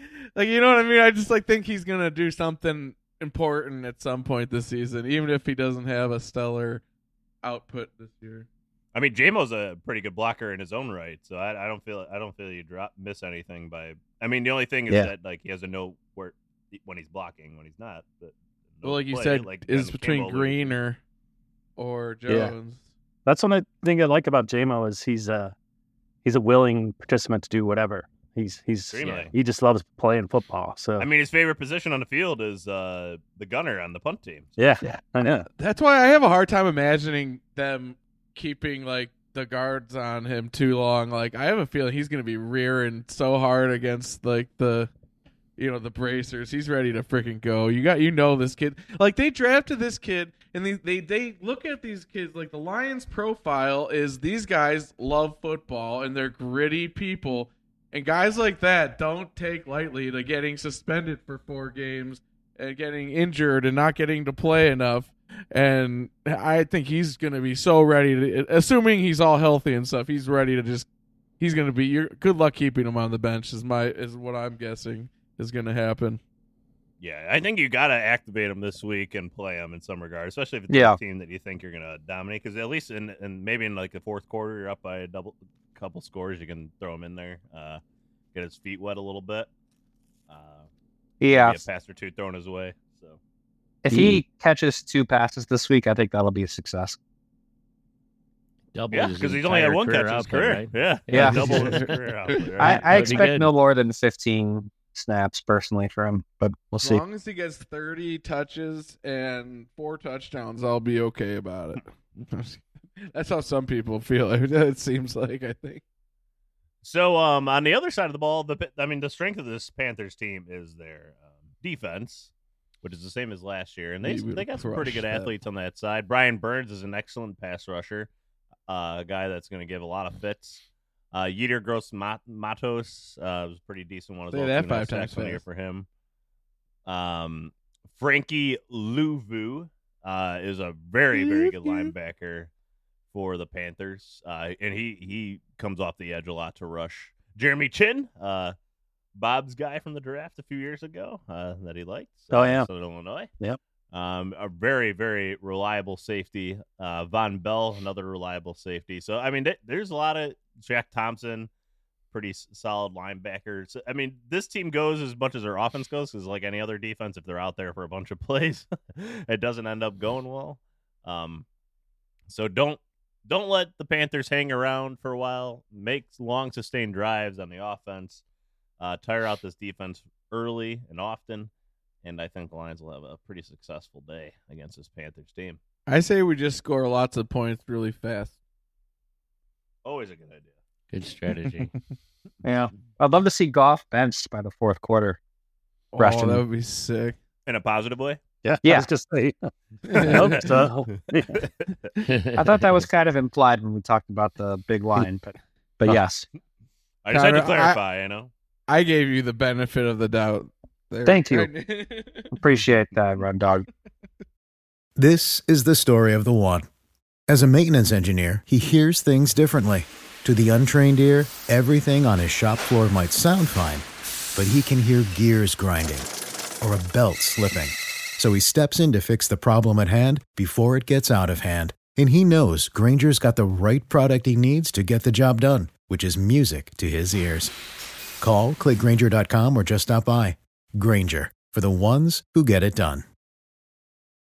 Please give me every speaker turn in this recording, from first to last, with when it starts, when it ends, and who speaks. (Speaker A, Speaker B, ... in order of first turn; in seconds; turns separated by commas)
Speaker A: 0.3-6.8, Speaker A: 7.4-8.5, Speaker B: 8.9-20.8, Speaker A: 18.8-21.0, Speaker A: 21.8-22.9, Speaker C: 22.3-22.6, Speaker C: 23.3-25.5, Speaker C: 26.2-31.1, Speaker B: 28.9-29.3, Speaker D: 29.0-29.3, Speaker B: 31.0-34.6, Speaker C: 34.6-35.5, Speaker A: 35.6-44.9, Speaker A: 45.6-70.9, Speaker A: 71.4-76.2, Speaker B: 77.0-87.8, Speaker E: 80.7-81.0, Speaker B: 88.3-89.5, Speaker B: 90.3-90.7, Speaker E: 91.2-91.6, Speaker B: 91.3-93.2, Speaker E: 93.8-97.0, Speaker C: 93.9-94.2, Speaker D: 98.7-101.9, Speaker B: 98.9-103.3, Speaker E: 101.1-101.8, Speaker E: 102.6-107.0, Speaker D: 102.9-103.5, Speaker A: 106.8-115.8, Speaker B: 116.8-122.3, Speaker B: 122.8-128.1, Speaker A: 124.0-125.3, Speaker B: 128.7-135.9, Speaker A: 134.3-135.4, Speaker B: 136.9-142.5, Speaker A: 141.1-141.9, Speaker B: 143.1-148.6, Speaker B: 149.2-153.3, Speaker C: 152.3-152.7, Speaker B: 153.9-161.5, Speaker B: 162.1-171.4, Speaker B: 172.3-178.2, Speaker B: 178.8-181.5, Speaker B: 182.0-185.6, Speaker A: 185.9-188.3, Speaker B: 189.8-190.5, Speaker D: 190.9-191.7, Speaker E: 192.4-195.2, Speaker A: 195.9-197.2, Speaker E: 196.0-196.4, Speaker B: 197.5-198.2, Speaker C: 198.4-201.5, Speaker E: 198.6-198.9, Speaker A: 199.9-200.3, Speaker B: 200.0-200.7, Speaker D: 202.0-202.8, Speaker E: 202.3-206.3, Speaker B: 207.1-208.3, Speaker A: 207.1-207.8, Speaker A: 208.7-212.4, Speaker E: 211.1-211.5, Speaker E: 212.3-213.7, Speaker F: 215.0-216.7, Speaker F: 217.3-226.1, Speaker F: 226.6-237.5, Speaker F: 238.2-243.0